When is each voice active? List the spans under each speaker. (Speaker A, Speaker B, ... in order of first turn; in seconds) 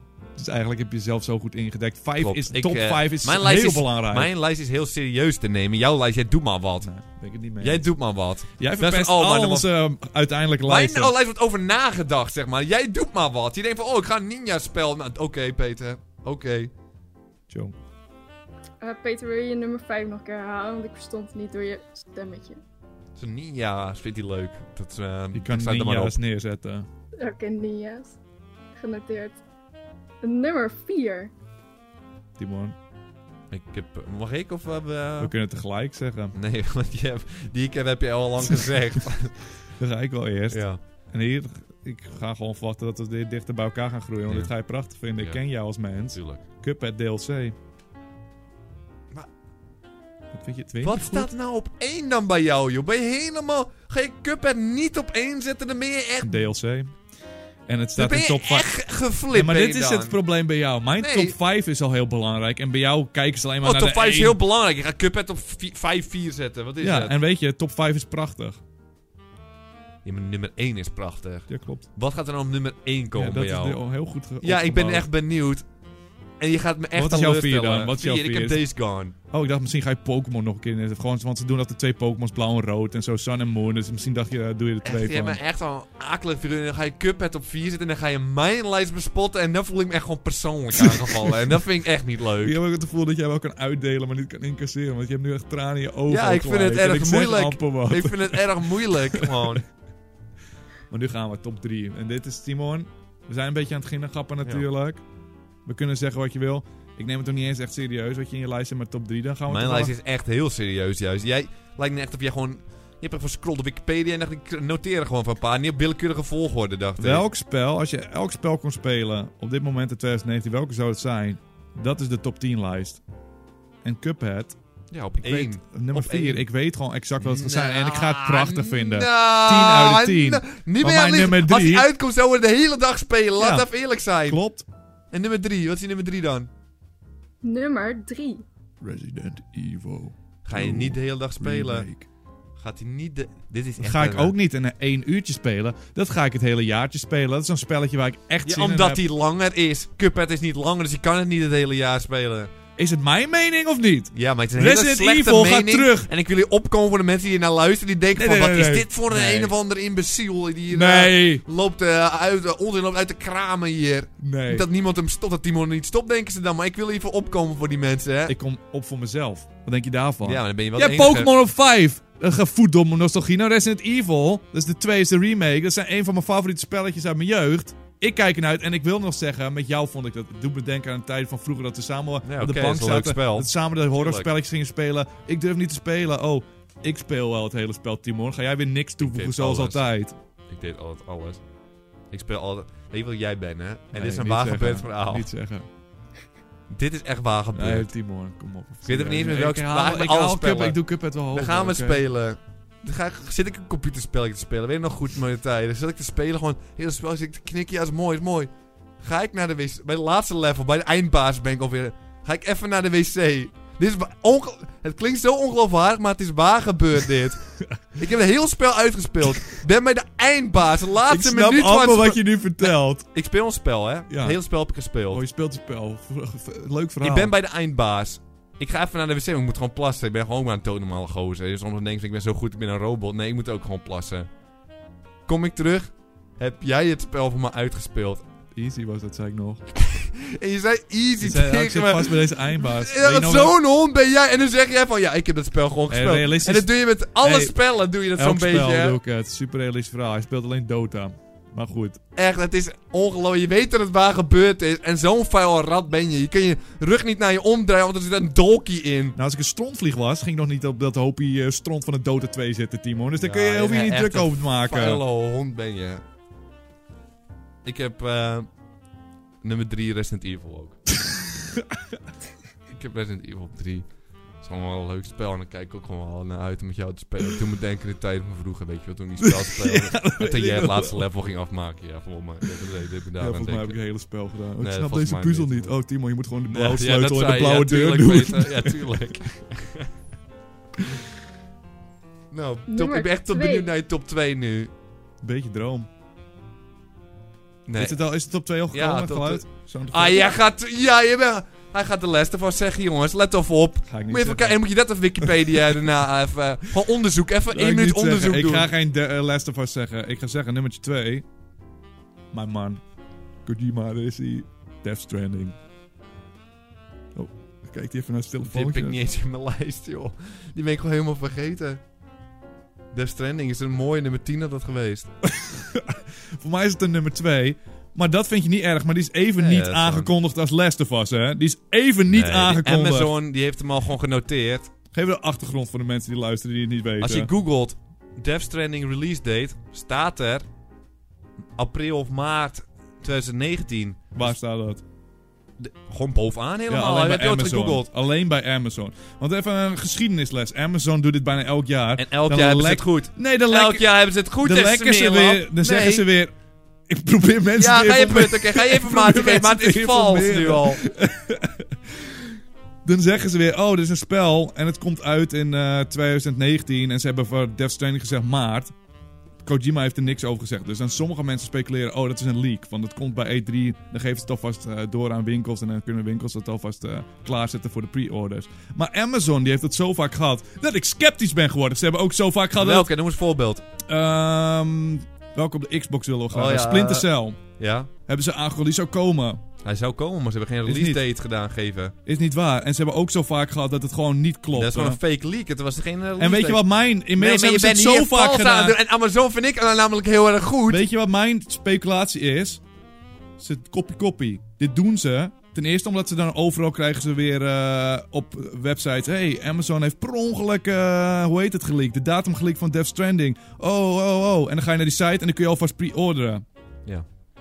Speaker A: 0.4-4.3, 6.8-7.9, 8.6-11.1, 17.5-17.7, 25.3-26.9, 32.4-32.8, 35.2-36.4, 39.8-47.6, 50.3-51.3, 56.2-57.0, 57.7-58.7, 59.3-64.4, 66.8-68.6, 71.5-71.9, 73.2-75.1, 76.9-78.6, 79.3-85.4, 90.8-91.6, 92.4-99.6, 100.9-105.0, 105.7-109.9, 117.0-123.0, 123.8-124.6, 125.2-131.9, 133.4-133.7, 134.2-134.7, 138.8-142.1, 143.8-149.0, 152.8-156.1, 158.2-159.5, 160.7-161.4, 164.2-164.7, 168.3-190.2, 193.9-195.7, 197.5-202.0, 221.1-223.1, 224.1-224.4, 225.1-227.3, 238.5-239.7, 241.2-243.6, 245.9-247.6, 248.2-252.0, 259.2-265.0, 271.1-271.8, 279.2-281.1, 283.2-288.9, 295.2-295.9, 297.8-300.3, 303.9-304.6, 307.5-311.3, 312.3-312.8, 313.4-315.6, 317.1-319.0, 325.3-333.1, 334.9-337.3, 344.1-344.8, 346.7-356.3, 356.9-361.8, 362.9-368.7, 369.4-382.9, 383.9-387.4, 388.1-389.4, 390.6-391.0, 392.1-395.0, 396.2-398.8, 400.7-402.6, 403.4-416.4
Speaker B: 2.2-6.9, 7.6-9.7, 10.7-16.7, 23.2-26.2, 33.5-35.3, 36.4-39.5, 40.5-40.8, 46.1-46.4, 50.8-56.4, 58.0-60.2, 61.0-61.4, 63.6-67.2, 70.0-73.8, 74.4-75.7, 76.4-79.1, 84.8-92.6, 96.1-99.7, 109.5-117.2, 124.9-126.4, 127.2-134.4, 135.1-136.5, 140.4-141.9, 142.6-144.3, 148.4-152.5, 154.1-168.3, 170.2-171.3, 182.2-184.3, 189.0-189.8, 190.5-191.4, 192.1-195.3, 196.7-197.9, 198.8-200.8, 201.3-225.2, 227.0-234.3, 235.3-238.2, 239.8-249.0, 252.2-259.2, 263.2-266.0, 267.6-268.5, 269.4-270.8, 272.7-273.9, 274.4-283.8, 284.6-285.7, 286.5-289.9, 292.3-294.7, 297.7-298.0, 298.7-308.7, 318.5-321.8, 322.9-325.1, 329.4-330.1, 332.1-334.7, 337.0-340.5, 341.6-344.4, 345.6-347.9, 352.0-356.1, 357.6-360.8, 382.6-383.6, 386.3-387.9, 389.6-391.9, 394.5-396.6, 397.2-400.8
Speaker C: 18.8-22.6, 27.2-28.2, 28.8-29.4, 30.2-31.3, 137.4-138.4, 292.7-293.7